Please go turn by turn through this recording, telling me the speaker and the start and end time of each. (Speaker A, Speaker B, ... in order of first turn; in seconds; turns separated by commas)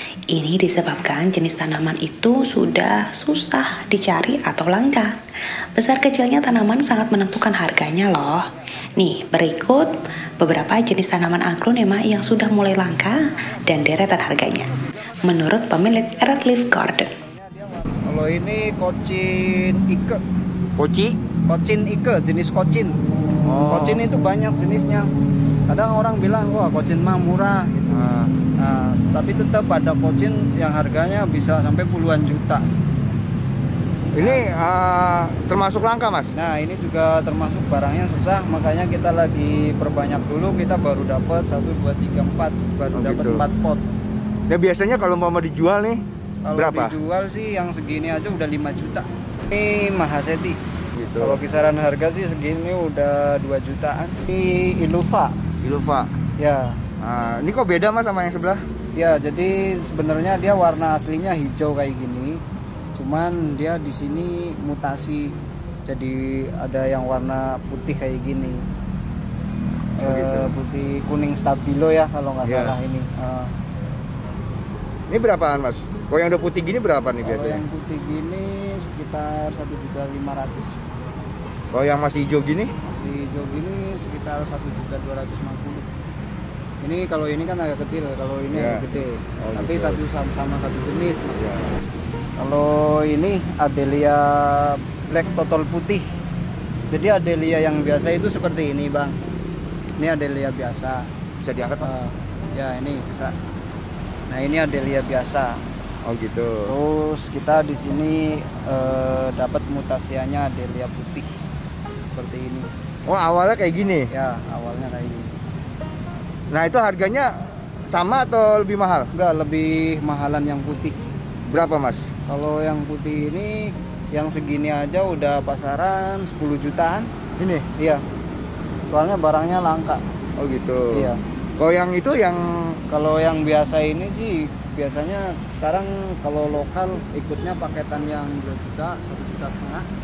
Speaker A: 0.3-5.2, Speaker A: 5.8-8.4, Speaker A: 9.0-17.1, Speaker B: 16.1-20.2, Speaker C: 20.8-21.2, Speaker B: 21.5-23.0, Speaker C: 23.4-24.0, Speaker B: 23.7-25.1, Speaker B: 25.7-28.1, Speaker C: 27.9-28.3, Speaker B: 28.6-32.7, Speaker B: 34.1-34.5, Speaker C: 34.1-36.3, Speaker B: 36.3-43.8, Speaker C: 42.9-43.5, Speaker C: 44.5-46.0, Speaker B: 46.4-50.6, Speaker C: 46.5-47.0, Speaker C: 51.0-51.4, Speaker B: 51.2-55.4, Speaker C: 55.6-56.1, Speaker B: 56.4-56.8, Speaker C: 57.0-58.6, Speaker B: 59.0-62.4, Speaker B: 63.0-68.6, Speaker B: 70.0-73.5, Speaker C: 70.0-70.5, Speaker C: 72.4-72.8, Speaker C: 75.1-77.6, Speaker B: 77.2-80.8, Speaker C: 81.7-82.7, Speaker B: 82.8-85.9, Speaker B: 86.8-91.4, Speaker C: 88.5-88.8, Speaker C: 89.4-90.0, Speaker C: 91.3-91.8, Speaker B: 92.4-96.1, Speaker B: 96.9-99.2, Speaker B: 100.0-101.1, Speaker C: 101.4-102.1, Speaker B: 101.8-103.3, Speaker B: 104.3-105.6, Speaker C: 106.0-106.7, Speaker B: 106.7-111.3, Speaker B: 112.1-112.7, Speaker C: 113.1-114.1, Speaker B: 114.1-115.4, Speaker C: 116.5-117.3, Speaker C: 117.9-119.1, Speaker B: 119.1-121.0, Speaker C: 121.5-122.0, Speaker B: 122.3-127.1, Speaker C: 127.4-127.7, Speaker B: 127.8-128.0, Speaker B: 128.9-130.0, Speaker C: 130.4-132.8, Speaker B: 130.9-131.2, Speaker B: 132.9-139.9